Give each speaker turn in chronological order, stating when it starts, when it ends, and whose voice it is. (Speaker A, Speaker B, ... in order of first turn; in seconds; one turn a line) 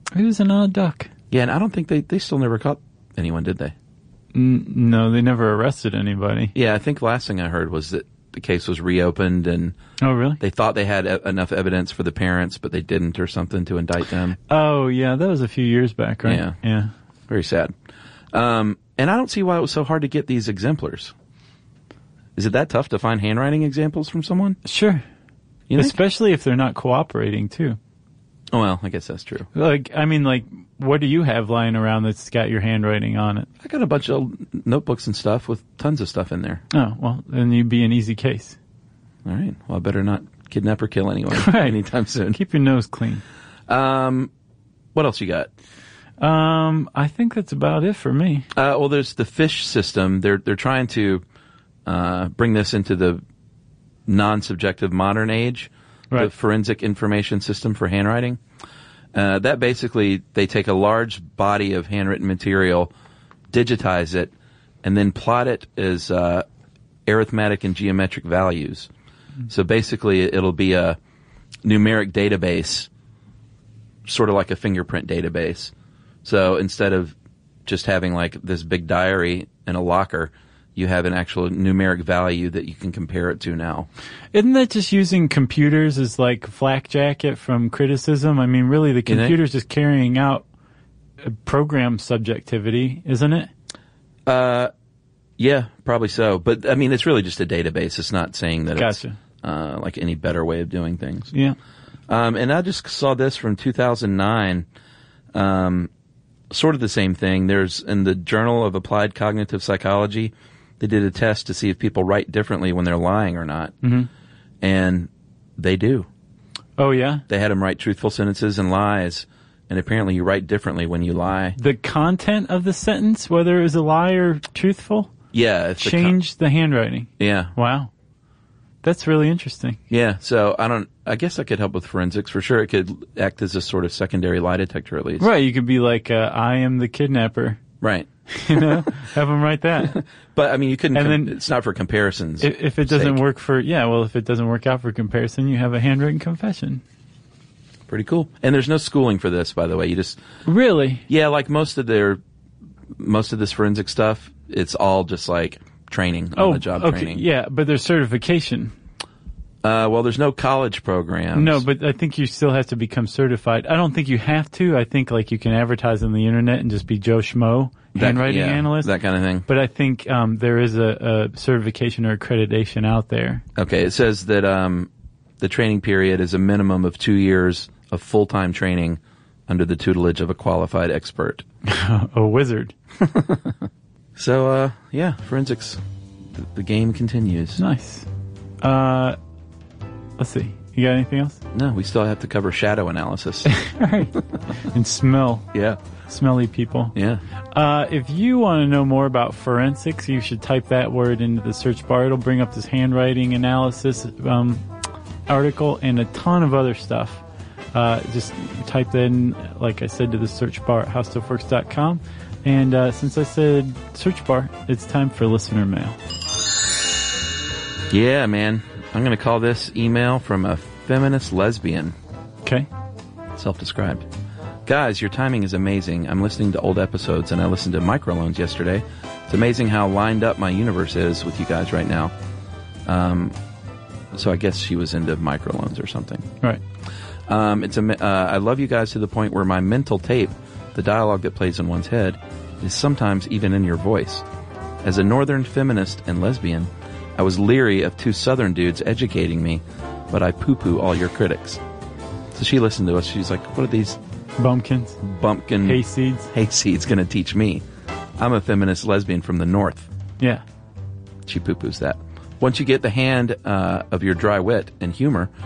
Speaker A: 0.1-1.1
Speaker B: 1.3-3.8
Speaker A: 4.3-6.5
Speaker B: 6.5-9.8
Speaker A: 10.0-10.4
Speaker B: 10.4-14.4
Speaker A: 14.5-16.9
Speaker B: 16.2-16.6
Speaker B: 17.3-17.7
Speaker B: 18.3-21.1
Speaker B: 22.4-24.6
Speaker A: 24.6-25.0
Speaker B: 25.7-26.0
Speaker A: 25.8-27.8
Speaker B: 28.5-29.5
Speaker A: 29.5-33.5
Speaker B: 33.6-36.6
Speaker A: 36.7-38.6
Speaker B: 39.2-42.4
Speaker A: 41.3-41.8
Speaker A: 42.3-43.2
Speaker B: 43.7-44.3
Speaker B: 45.0-45.5
Speaker A: 46.2-48.5
Speaker B: 48.5-51.2
Speaker B: 51.9-53.2
Speaker B: 54.1-58.4
Speaker B: 59.1-62.9
Speaker B: 63.5-64.3
Speaker B: 64.8-66.5
Speaker B: 67.1-68.9
Speaker B: 69.5-71.0
Speaker B: 71.6-72.9
Speaker B: 74.0-75.7
Speaker B: 76.2-77.2
Speaker B: 77.7-83.9
Speaker A: 84.3-90.5
Speaker B: 89.1-89.4
Speaker A: 91.2-93.5
Speaker B: 94.3-94.7
Speaker B: 95.4-101.3
Speaker A: 98.7-99.2
Speaker B: 102.1-104.7
Speaker B: 105.3-105.9
Speaker B: 106.5-113.8
Speaker A: 113.8-114.1
Speaker B: 114.6-116.1
Speaker A: 116.8-117.2
Speaker B: 117.3-121.6
Speaker A: 121.6-125.1
Speaker B: 125.3-126.2
Speaker A: 125.8-127.9
Speaker B: 127.2-127.5
Speaker A: 128.8-129.8
Speaker B: 129.9-135.3
Speaker A: 135.2-137.6
Speaker B: 137.8-138.9
Speaker A: 138.3-140.0
Speaker B: 139.8-143.2
Speaker A: 140.9-141.4
Speaker A: 142.4-146.8
Speaker B: 147.9-150.2
Speaker A: 150.5-151.1
Speaker B: 151.1-152.2
Speaker B: 152.9-157.2
Speaker A: 156.3-158.7
Speaker B: 159.6-161.6
Speaker A: 161.3-168.9
Speaker B: 167.9-169.5
Speaker A: 169.5-173.4
Speaker B: 173.6-174.9
Speaker B: 175.4-181.4
Speaker A: 181.7-182.7
Speaker B: 183.0-183.6
Speaker B: 184.2-185.8
Speaker B: 186.3-187.6
Speaker A: 187.6-188.1
Speaker A: 188.6-189.2
Speaker A: 190.2-191.4
Speaker B: 191.5-193.5
Speaker A: 193.5-195.5
Speaker B: 195.5-195.8
Speaker A: 196.1-196.9
Speaker B: 196.9-197.2
Speaker A: 197.5-204.6
Speaker A: 205.3-216.0
Speaker B: 217.9-221.9
Speaker B: 223.3-224.1
Speaker B: 224.7-232.1
Speaker B: 232.9-233.3
Speaker B: 234.1-236.3
Speaker B: 237.3-244.2
Speaker B: 244.8-251.6
Speaker B: 252.3-254.0
Speaker A: 254.4-255.0
Speaker B: 255.0-257.6
Speaker A: 255.6-256.3
Speaker B: 258.2-259.9
Speaker B: 261.2-265.3